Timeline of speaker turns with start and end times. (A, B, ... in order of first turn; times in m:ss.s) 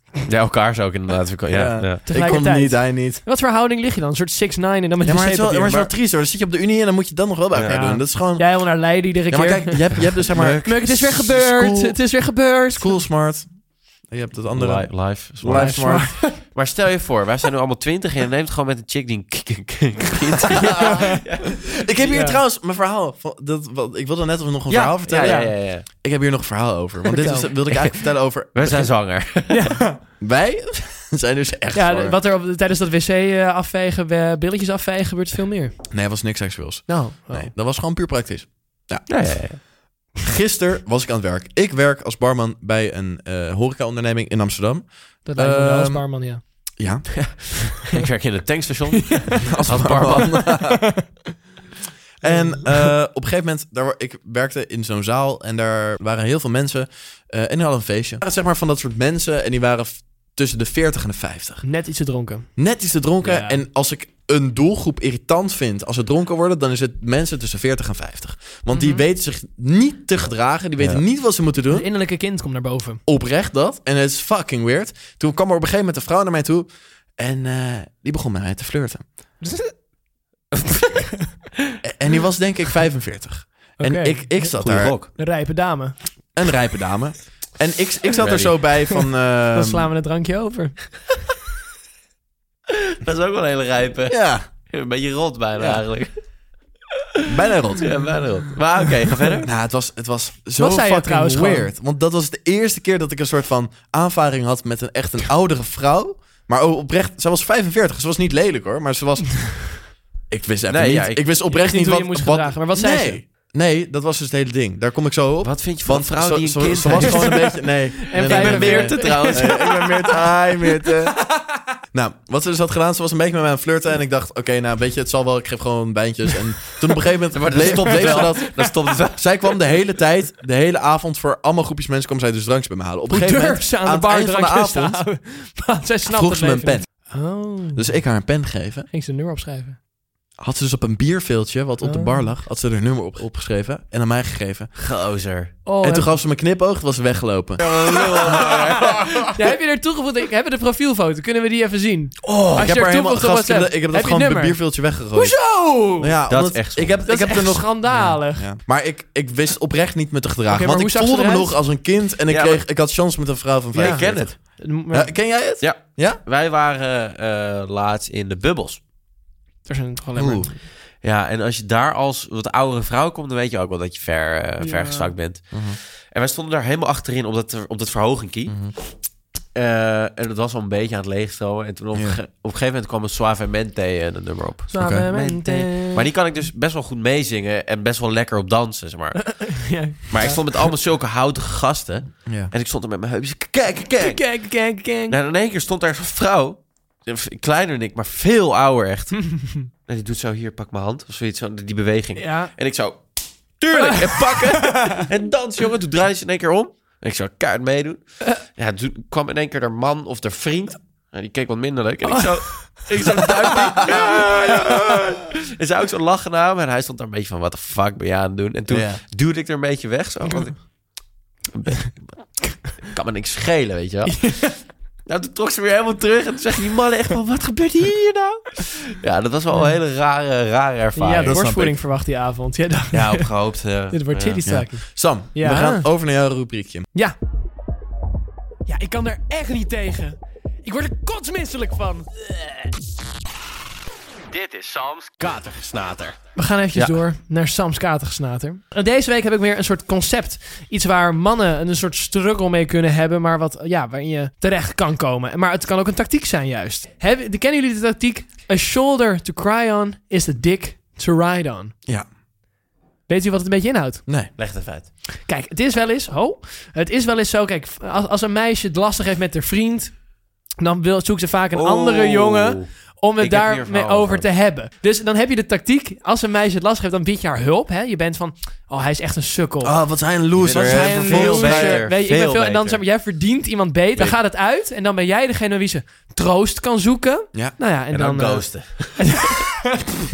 0:00.3-0:02.0 A
0:01.5-0:03.2 B
0:02.0-0:05.9 C
0:05.0-0:12.0 B
0:07.5-0:07.8 A
0:07.6-0:13.0 C
0:10.3-0:10.7 A
0:12.7-0:16.3 B
0:14.5-0:21.8 A
0:15.5-0:16.4 C
0:21.8-0:28.9 B
0:22.0-0:22.4 C
0:24.7-0:25.8 A
0:25.2-0:25.6 C
0:27.1-0:27.5 C
0:27.7-0:29.6 A
0:29.5-0:30.0 C
0:30.2-0:32.2 B
0:31.7-0:35.8 C
0:35.9-0:47.5 B
0:36.9-0:37.5 C
0:39.1-0:39.6 A
0:45.2-0:46.4 C
0:47.2-0:50.5 A
0:49.0-0:51.0 C
0:49.5-0:51.0 B
0:52.2-1:01.6 B
0:52.2-0:52.9 C
1:01.6-1:02.5 C
1:02.6-1:11.9 B
1:03.2-1:03.6 C
1:08.7-1:09.0 C
1:11.7-1:13.0 C
1:13.0-1:19.1 B
1:19.4-1:19.7 C
1:21.8-1:25.0 B
1:23.8-1:24.6 C
1:24.6-1:25.1 A
1:25.1-1:26.0 C
1:26.3-1:29.9 B
1:28.2-1:28.6 A
1:29.5-1:30.9 C
1:32.9-1:36.2 A
1:34.1-1:34.4 B
1:37.2-1:38.0 B
1:37.8-1:39.5 A
1:39.4-2:01.3 B
1:40.6-1:41.7 C
1:50.7-1:51.3 A
1:51.5-1:53.2 C
1:55.4-1:57.6 A
1:57.0-1:57.4 C
1:58.0-2:00.2 C
1:58.1-1:59.8 A
2:01.9-2:15.0 B
2:07.3-2:09.6 A
2:08.0-2:08.3 C
2:13.1-2:18.0 C
2:16.0-2:17.1 B
2:17.7-2:18.9 B
2:18.9-2:19.8 C
2:20.4-2:24.7 B
2:21.8-2:22.3 C
2:24.8-2:25.6 A
2:25.6-2:26.2 C
2:25.8-2:28.9 B
2:27.6-2:29.3 A
2:29.3-2:36.2 C
2:32.2-2:32.6 A
2:32.5-2:46.2 B
2:36.3-2:37.0 A
2:37.0-2:38.5 C
2:40.5-2:41.6 C
2:42.3-2:42.6 A
2:43.7-2:44.4 A
2:43.8-2:45.1 C
2:45.6-2:48.8 A
2:49.6-2:50.6 C
2:50.2-2:50.5 B
2:51.0-2:58.7 A
2:54.6-2:55.1 C
2:55.5-2:55.8 B
2:58.5-2:58.7 B
2:59.5-3:14.4 A
3:01.9-3:02.2 B
3:04.7-3:06.1 C
3:04.7-3:05.1 B
3:09.2-3:10.7 C
3:12.2-3:12.5 B
3:14.0-3:15.2 C
3:15.1-3:40.9 A
3:19.4-3:19.6 C
3:22.2-3:22.5 C
3:23.7-3:25.0 C
3:32.0-3:34.2 C
3:38.7-3:39.0 B
3:40.2-3:40.5 C
3:41.5-3:51.7 A
3:44.1-3:44.5 C
3:51.0-3:53.3 C
3:51.2-3:51.8 B
3:52.9-3:54.4 A
3:53.9-3:55.9 C
3:54.4-3:56.8 B
3:58.6-4:02.1 C
4:04.3-4:06.2 A
4:06.4-4:21.7 C
4:23.1-4:24.0 C
4:24.0-4:24.3 B
4:24.4-4:24.9 A
4:25.2-4:30.1 C
4:30.6-4:39.7 C
4:31.5-4:34.3 A
4:39.6-4:41.8 B
4:40.4-4:42.8 A
4:40.5-4:49.8 C
4:47.9-4:49.4 A